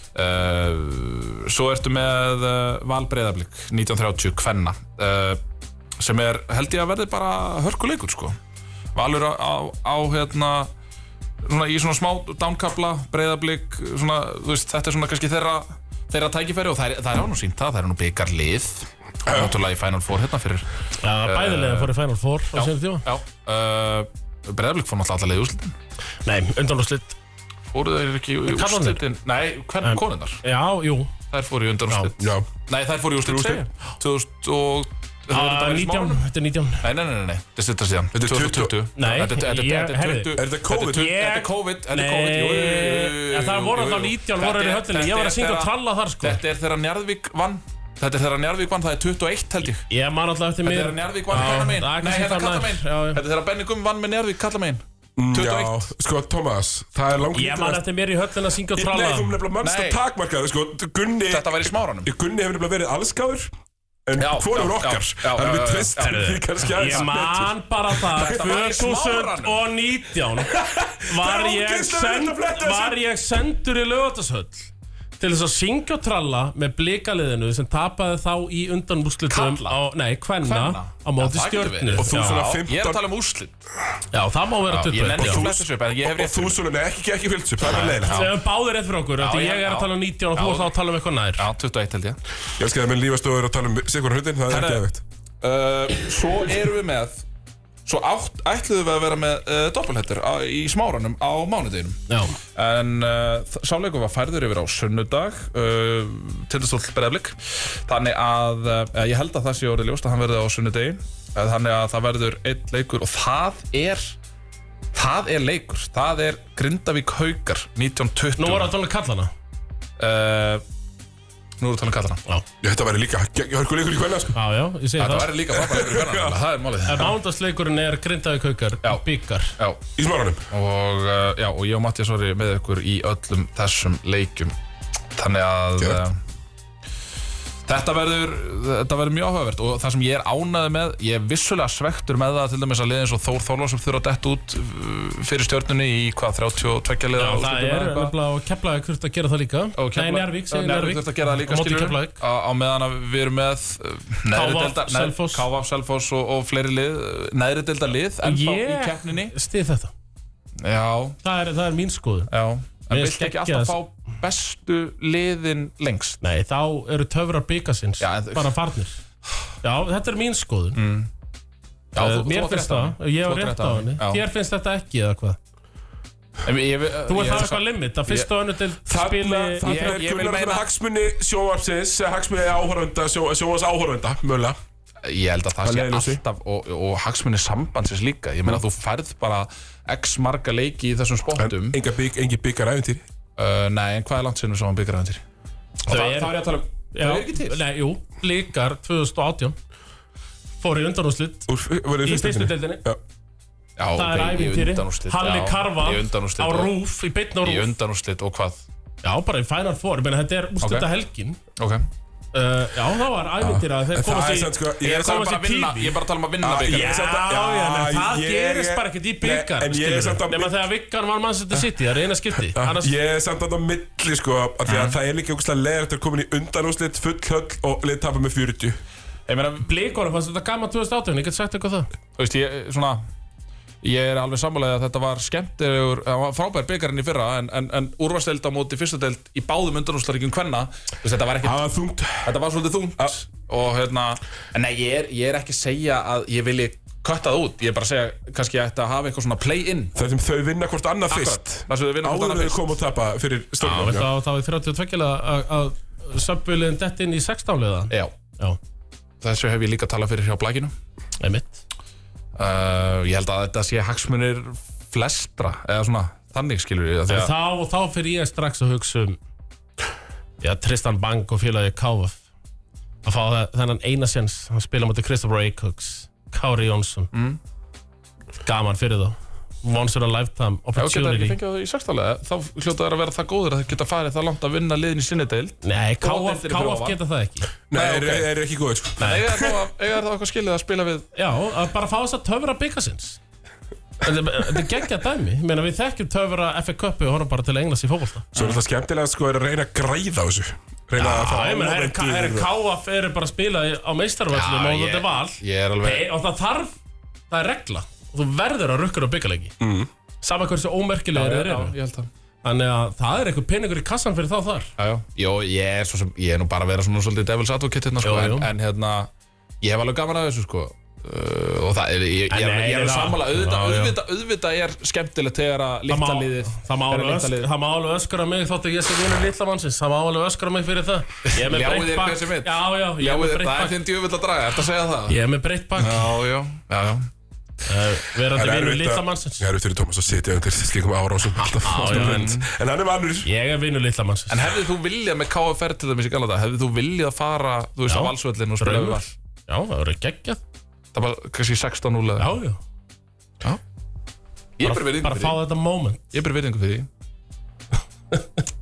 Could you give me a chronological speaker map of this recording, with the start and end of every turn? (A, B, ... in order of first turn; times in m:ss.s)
0:00.1-0:05.4 A
0:06.0-0:08.4 A
0:08.9-0:10.7 A
0:11.4-0:20.7 A
0:19.2-0:19.6 B
0:21.0-0:23.0 C
0:21.2-0:21.9 A
0:22.5-0:25.7 A
0:26.2-0:27.2 C
0:27.7-0:30.4 A
0:28.5-0:29.0 C
0:29.8-0:31.1 C
0:31.3-0:36.2 A
0:32.2-0:32.5 B
0:33.2-0:33.6 B
0:35.3-0:36.8 C
0:36.8-0:49.8 A
0:38.1-0:38.8 B
0:39.0-0:46.4 C
0:40.4-0:41.2 B
0:49.9-0:53.2 C
0:50.6-0:55.9 A
0:55.2-0:57.8 B
0:57.3-0:59.4 C
0:58.7-1:03.5 B
0:59.6-1:00.0 A
1:01.3-1:02.1 A
1:04.0-1:08.6 B
1:04.2-1:07.1 A
1:06.0-1:22.4 C
1:08.1-1:09.6 A
1:10.5-1:13.0 B
1:19.3-1:19.8 A
1:20.4-1:23.5 A
1:21.9-1:23.0 B
1:24.1-1:25.5 C
1:24.7-1:26.6 A
1:25.2-1:28.2 B
1:27.6-1:28.4 A
1:28.0-1:31.4 C
1:29.2-1:30.7 A
1:31.4-1:32.2 A
1:32.6-1:35.0 B
1:34.5-1:34.8 A
1:35.4-1:37.2 A
1:37.8-1:42.0 A
1:42.1-1:42.4 C
1:42.5-1:54.2 A
1:54.9-1:58.7 A
1:58.4-1:59.3 C
2:00.0-2:00.6 A
2:01.6-2:02.2 A
2:02.6-2:04.4 B
2:04.3-2:05.3 C
2:05.0-2:07.1 A
2:05.5-2:06.4 B
2:06.8-2:09.6 C
2:10.0-2:10.5 B
2:10.5-2:14.5 A
2:15.1-2:16.2 A
2:15.8-2:16.0 B
2:17.6-2:28.1 A
2:27.2-2:32.2 C
2:29.8-2:39.3 A
2:34.3-2:35.4 C
2:38.2-2:39.9 C
2:40.6-2:41.2 A
2:41.2-2:42.3 C
2:42.3-2:46.2 A
2:42.9-2:43.8 C
2:46.2-2:49.0 C
2:48.0-2:48.5 A
2:49.6-2:50.8 C
2:50.7-2:51.1 A
2:51.9-2:54.2 A
2:51.9-2:55.4 C
2:56.4-2:58.3 A
2:57.1-3:00.0 C
2:58.9-3:04.6 B
2:59.6-3:00.6 A
3:05.0-3:11.8 A
3:05.6-3:06.2 B
3:11.4-3:13.0 B
3:13.4-3:15.2 A
3:15.9-3:19.6 C
3:15.9-3:17.6 A
3:20.6-3:21.5 C
3:21.5-3:23.0 B
3:22.0-3:22.8 C
3:23.8-3:26.7 A
3:24.0-3:27.7 C
3:27.4-3:28.6 A
3:29.0-3:31.4 C
3:30.6-3:30.9 A
3:31.6-3:31.8 A
3:32.3-3:36.0 C
3:33.9-3:35.3 B
3:34.8-3:36.9 A
3:36.4-3:40.6 B
3:36.5-3:42.9 C
3:42.5-3:48.8 B
3:44.7-3:45.0 A
3:49.3-3:49.7 A
3:49.6-3:51.9 C
3:52.2-3:53.0 A
3:53.8-4:01.6 A
4:01.4-4:02.4 B
4:02.2-4:09.9 A
4:09.9-4:14.1 B
4:11.1-4:12.7 A
4:13.6-4:18.6 C
4:19.2-4:20.7 A
4:21.2-4:21.6 C
4:22.4-4:27.3 A
4:27.1-4:29.2 C
4:30.4-4:32.2 C
4:33.0-4:37.1 C
4:37.1-4:37.4 A
4:38.4-4:41.4 C
4:40.8-4:47.0 A
4:45.6-4:47.5 C
4:47.7-4:49.6 B
4:47.7-4:48.3 A
4:49.0-4:51.1 A
4:51.1-4:53.2 C
4:54.0-4:58.3 C
4:58.3-4:58.6 A
4:58.3-5:02.5 B
5:01.0-5:06.7 C
5:04.3-5:06.0 A
5:07.3-5:09.5 C
5:09.6-5:09.9 B
5:10.2-5:11.7 C
5:11.1-5:12.1 A
5:12.4-5:14.7 C
5:14.8-5:19.1 A
5:18.0-5:18.5 C
5:19.6-5:27.5 A
5:22.3-5:24.0 C
5:25.9-5:33.8 C
5:31.3-5:35.2 A
5:35.1-5:36.1 C
5:35.8-5:37.1 A
5:37.6-5:39.4 C
5:38.3-5:43.3 B
5:41.4-5:42.4 C
5:41.8-5:42.5 A
5:43.2-5:44.4 C
5:44.3-5:49.1 A
5:47.9-5:50.4 C
5:50.9-5:52.3 A
5:52.2-5:52.6 C
5:54.6-5:55.4 A
5:54.6-5:56.0 C
5:56.1-5:56.9 A